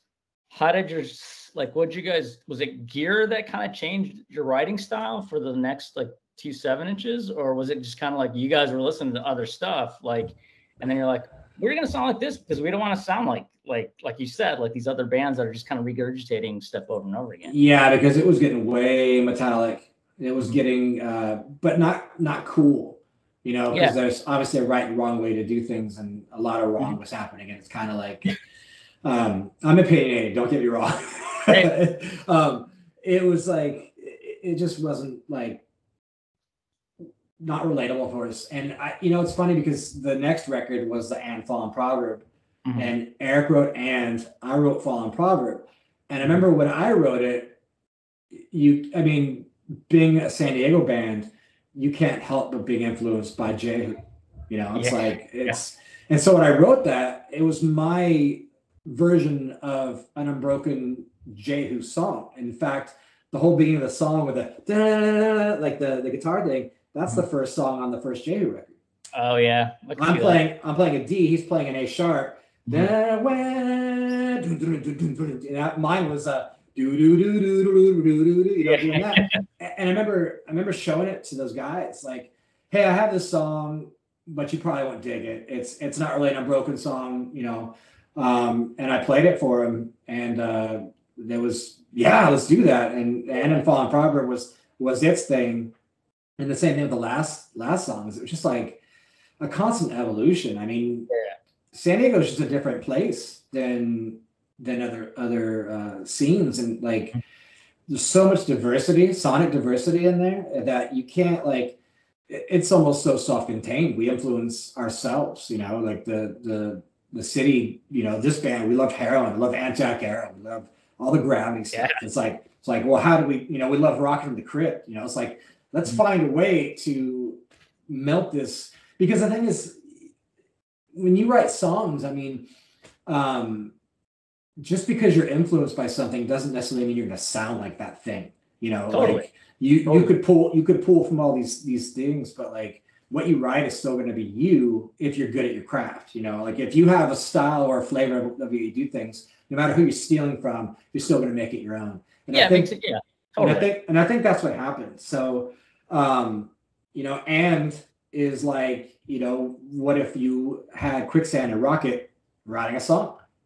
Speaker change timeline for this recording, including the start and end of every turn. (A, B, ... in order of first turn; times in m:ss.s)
0:00.5-0:17.6 A
0:17.5-0:28.3 B
0:29.0-0:35.6 B
0:31.5-0:31.7 A
0:37.4-0:47.6 B
0:42.7-0:42.9 A
0:48.3-1:08.8 B
0:54.8-0:55.6 A
1:09.1-1:10.4 A
1:10.0-1:35.7 B
1:18.6-1:19.4 A
1:36.4-1:38.8 B
1:39.4-1:41.1 B
1:41.1-1:41.4 A
1:41.7-1:47.2 B
1:47.9-1:51.8 B
1:52.3-2:09.9 B
2:01.7-2:02.0 A
2:11.0-2:12.5 B
2:13.1-2:13.7 B
2:14.6-2:32.7 B
2:18.9-2:19.3 A
2:19.9-2:20.1 A
2:32.3-2:33.7 A
2:33.4-2:43.2 B